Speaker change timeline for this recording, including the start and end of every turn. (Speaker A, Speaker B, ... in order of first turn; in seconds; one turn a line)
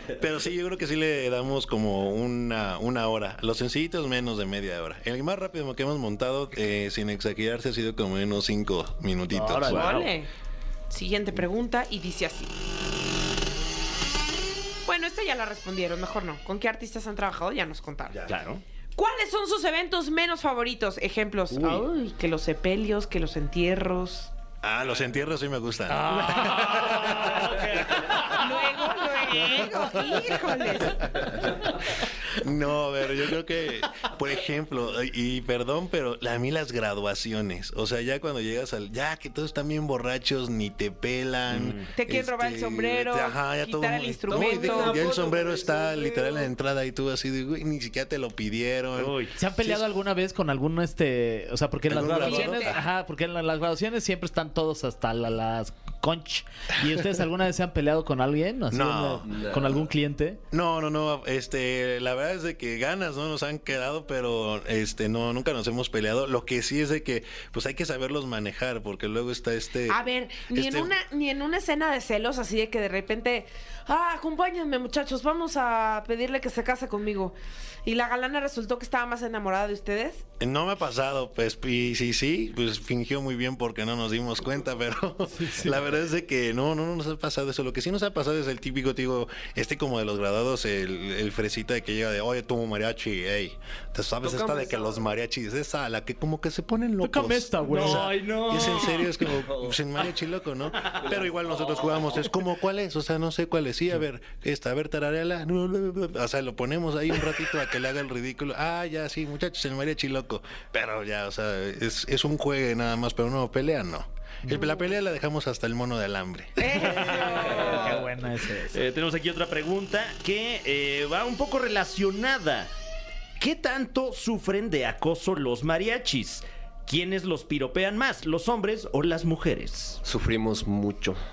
Speaker A: 0.2-9.8
Speaker B: 9.3-10.0
Speaker C: 9.7-10.1
Speaker D: 9.7-10.3
Speaker D: 10.9-12.5
Speaker D: 14.9-18.2
Speaker C: 18.3-18.6
Speaker D: 19.0-24.3
Speaker C: 21.5-21.9
Speaker A: 24.6-27.6
Speaker C: 25.9-28.4
Speaker D: 28.3-31.1
Speaker A: 32.4-49.9
Speaker C: 41.5-41.9
Speaker D: 42.0-45.1
Speaker E: 44.3-46.4
Speaker C: 49.0-49.3
Speaker B: 49.4-60.4
Speaker A: 51.9-52.8
Speaker D: 52.1-52.8
Speaker A: 58.7-59.6
Speaker E: 59.3-59.7
Speaker A: 60.5-70.9
Speaker D: 69.9-80.2
Speaker A: 80.4-117.0
Speaker E: 94.2-95.0
Speaker B: 97.0-98.1
Speaker C: 97.7-99.7
Speaker E: 101.0-102.0
Speaker D: 116.6-118.0
Speaker C: 116.8-118.1
Speaker B: 116.9-118.8
Speaker C: 118.7-122.7
Speaker C: 123.4-130.0
Speaker E: 130.0-131.2